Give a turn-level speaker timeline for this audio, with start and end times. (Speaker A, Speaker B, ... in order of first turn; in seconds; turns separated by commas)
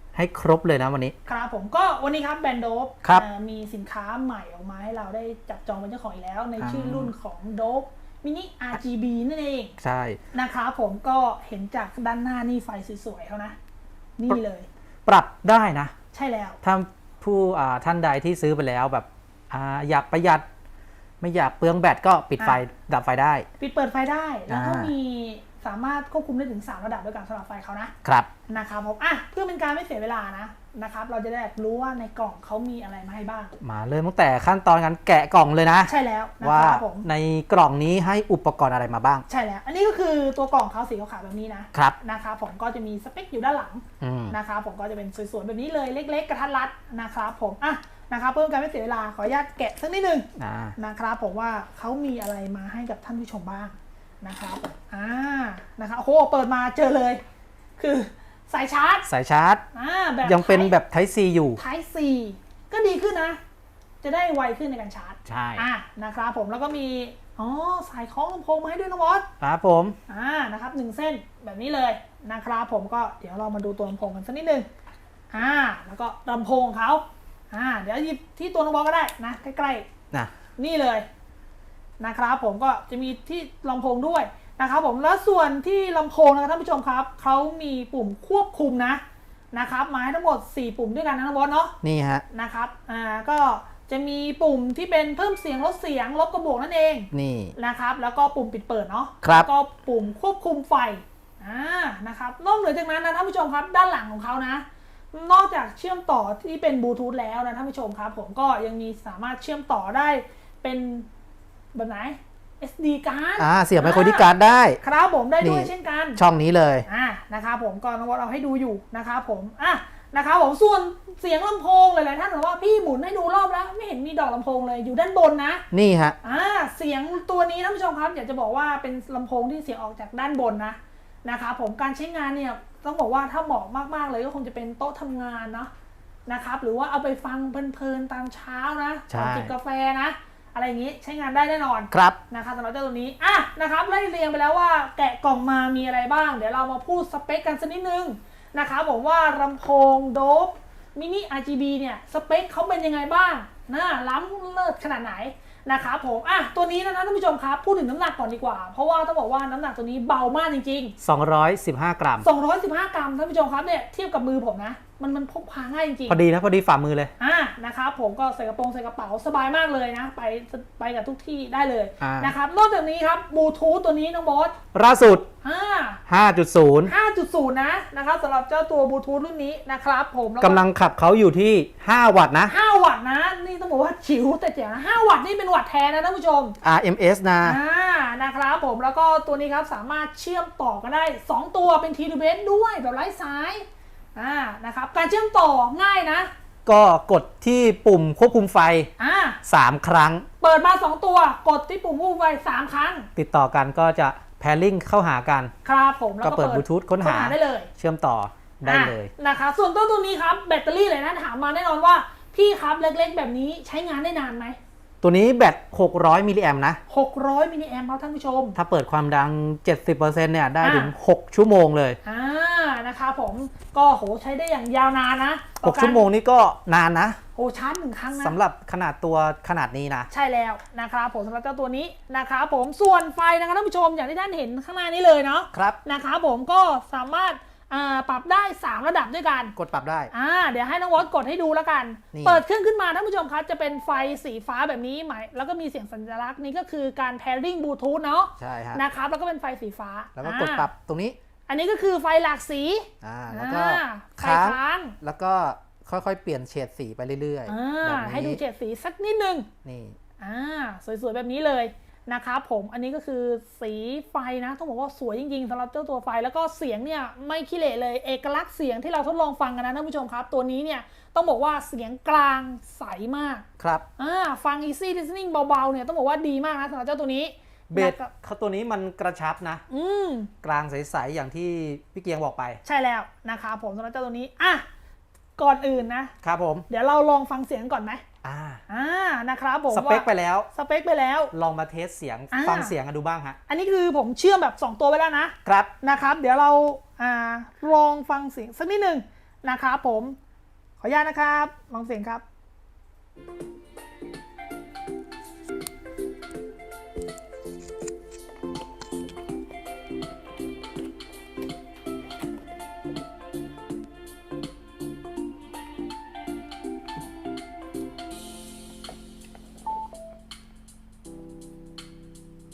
Speaker A: 0.1-1.1, Speaker B: 1.3-9.8, Speaker A: 6.6-7.1, Speaker A: 9.8-10.2, Speaker B: 10.3-13.6, Speaker B: 14.2-14.7, Speaker A: 15.1-15.9, Speaker B: 16.1-16.6, Speaker A: 16.6-20.4, Speaker A: 21.2-23.5, Speaker B: 23.6-27.9, Speaker A: 24.5-24.9, Speaker A: 28.0-28.3, Speaker B: 28.5-33.5, Speaker A: 33.6-39.2, Speaker B: 35.9-37.1, Speaker B: 39.3-57.2, Speaker A: 44.0-44.4, Speaker A: 50.4-50.8, Speaker B: 57.8-59.1, Speaker A: 59.1-59.6, Speaker B: 59.7-60.7, Speaker A: 60.2-61.6, Speaker B: 61.6-63.4, Speaker B: 64.0-69.3, Speaker A: 65.3-65.7, Speaker A: 69.4-70.0, Speaker B: 70.1-74.7, Speaker B: 75.3-79.9, Speaker B: 80.6-81.1, Speaker B: 82.0-89.0, Speaker B: 89.5-91.8, Speaker A: 91.8-92.2, Speaker B: 92.3-111.1, Speaker A: 97.1-97.5, Speaker A: 99.2-99.5, Speaker B: 111.8-114.3, Speaker A: 113.4-114.8, Speaker B: 114.8-116.2, Speaker A: 115.4-116.9, Speaker B: 116.9-125.7, Speaker A: 125.7-126.2, Speaker B: 126.2-135.7, Speaker B: 136.3-160.9, Speaker A: 139.1-139.5, Speaker A: 141.9-142.2, Speaker A: 161.0-162.3, Speaker B: 162.2-166.2, Speaker A: 166.1-167.1, Speaker B: 167.2-174.6, Speaker A: 172.0-172.3, Speaker A: 174.7-175.3, Speaker B: 175.4-176.0, Speaker A: 176.1-176.9, Speaker B: 176.9-180.6, Speaker A: 180.4-182.6, Speaker B: 182.5-186.6, Speaker A: 186.6-187.6, Speaker B: 187.4-196.3, Speaker A: 196.7-198.9, Speaker B: 199.0-199.4, Speaker A: 199.4-200.2, Speaker B: 200.4-203.1, Speaker A: 203.2-205.5, Speaker B: 205.7-207.7, Speaker A: 206.2-209.1, Speaker B: 208.7-214.6, Speaker A: 215.0-216.8, Speaker B: 216.9-218.6, Speaker A: 218.6-222.0, Speaker B: 220.6-220.9, Speaker B: 222.1-226.1, Speaker A: 225.6-227.2, Speaker B: 227.4-228.4, Speaker A: 228.2-230.1, Speaker B: 230.1-239.5, Speaker A: 235.5-235.8, Speaker A: 239.6-240.1, Speaker B: 240.1-250.7, Speaker A: 242.1-242.4, Speaker A: 248.4-248.8, Speaker A: 250.2-251.2, Speaker B: 251.5-255.0, Speaker A: 253.0-258.4, Speaker B: 257.5-259.5, Speaker A: 259.6-260.0, Speaker B: 260.2-273.5, Speaker A: 273.6-273.9, Speaker B: 274.0-278.1, Speaker A: 277.7-279.6, Speaker B: 279.7-280.3, Speaker A: 280.4-282.6, Speaker B: 282.6-284.6, Speaker B: 285.4-286.1, Speaker A: 286.2-286.6, Speaker B: 286.7-288.0, Speaker A: 288.2-288.6, Speaker B: 288.7-291.3, Speaker A: 289.7-290.5, Speaker A: 291.3-293.4, Speaker B: 292.3-292.7, Speaker B: 293.5-300.2, Speaker A: 295.4-295.7, Speaker B: 300.8-302.2